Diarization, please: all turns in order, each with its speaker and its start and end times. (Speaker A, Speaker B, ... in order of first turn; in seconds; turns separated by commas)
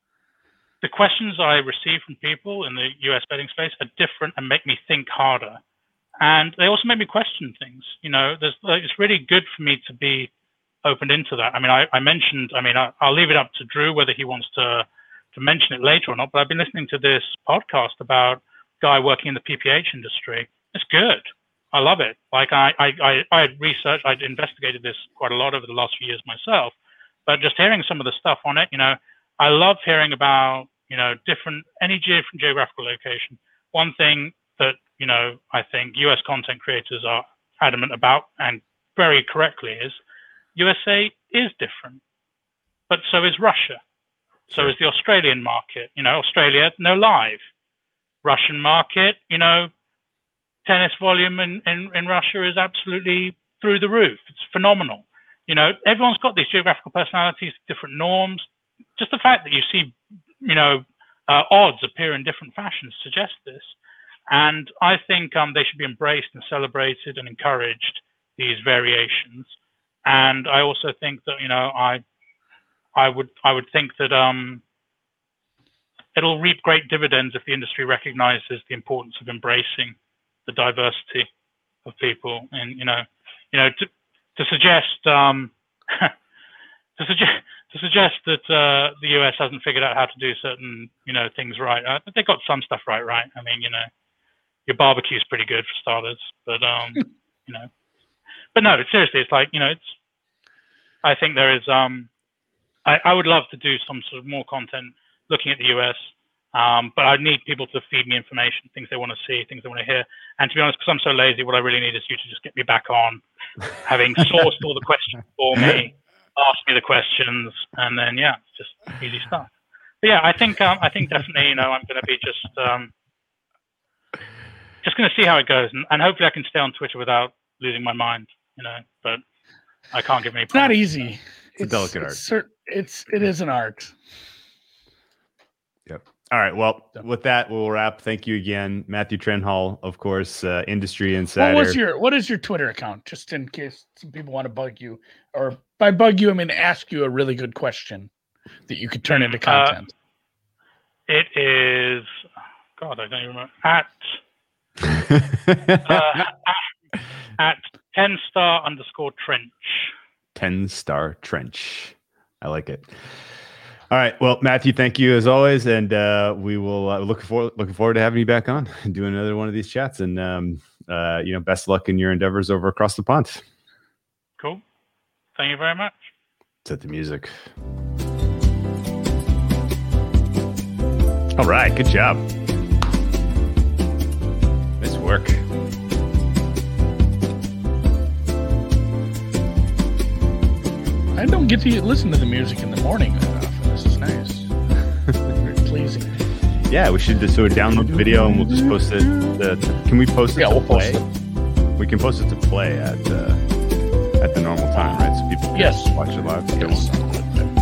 Speaker A: 0.8-5.6, Speaker A: 6.2-10.3, Speaker A: 10.8-26.7, Speaker A: 27.2-40.0, Speaker A: 40.5-42.0, Speaker A: 42.9-43.8, Speaker A: 44.5-47.5, Speaker A: 48.2-49.7, Speaker A: 50.6-63.8, Speaker A: 64.3-72.0, Speaker A: 72.9-74.6, Speaker A: 76.1-81.3, Speaker A: 81.8-86.1, Speaker A: 87.0-93.9, Speaker A: 94.7-97.7, Speaker A: 98.5-100.0, Speaker A: 101.0-102.1, Speaker A: 102.8-113.2, Speaker A: 113.8-119.5, Speaker A: 120.0-122.9, Speaker A: 124.8-129.2, Speaker A: 129.9-130.9, Speaker B: 130.5-133.9, Speaker C: 131.6-132.2, Speaker C: 135.9-141.8, Speaker B: 141.4-148.1, Speaker B: 148.7-149.9, Speaker A: 149.1-149.8, Speaker A: 151.1-152.2, Speaker A: 152.8-154.2, Speaker C: 154.8-156.2, Speaker A: 155.8-156.7, Speaker A: 157.4-159.9, Speaker C: 160.3-162.9, Speaker C: 163.9-173.4, Speaker A: 175.3-176.1, Speaker C: 176.6-177.4, Speaker C: 181.4-182.2, Speaker C: 184.8-185.4, Speaker B: 191.1-194.5, Speaker C: 195.0-195.3, Speaker B: 195.4-196.2, Speaker C: 196.7-201.0, Speaker B: 197.7-199.3, Speaker B: 200.3-201.1, Speaker C: 201.8-203.4, Speaker C: 204.2-207.2, Speaker B: 205.5-205.9, Speaker B: 206.6-207.4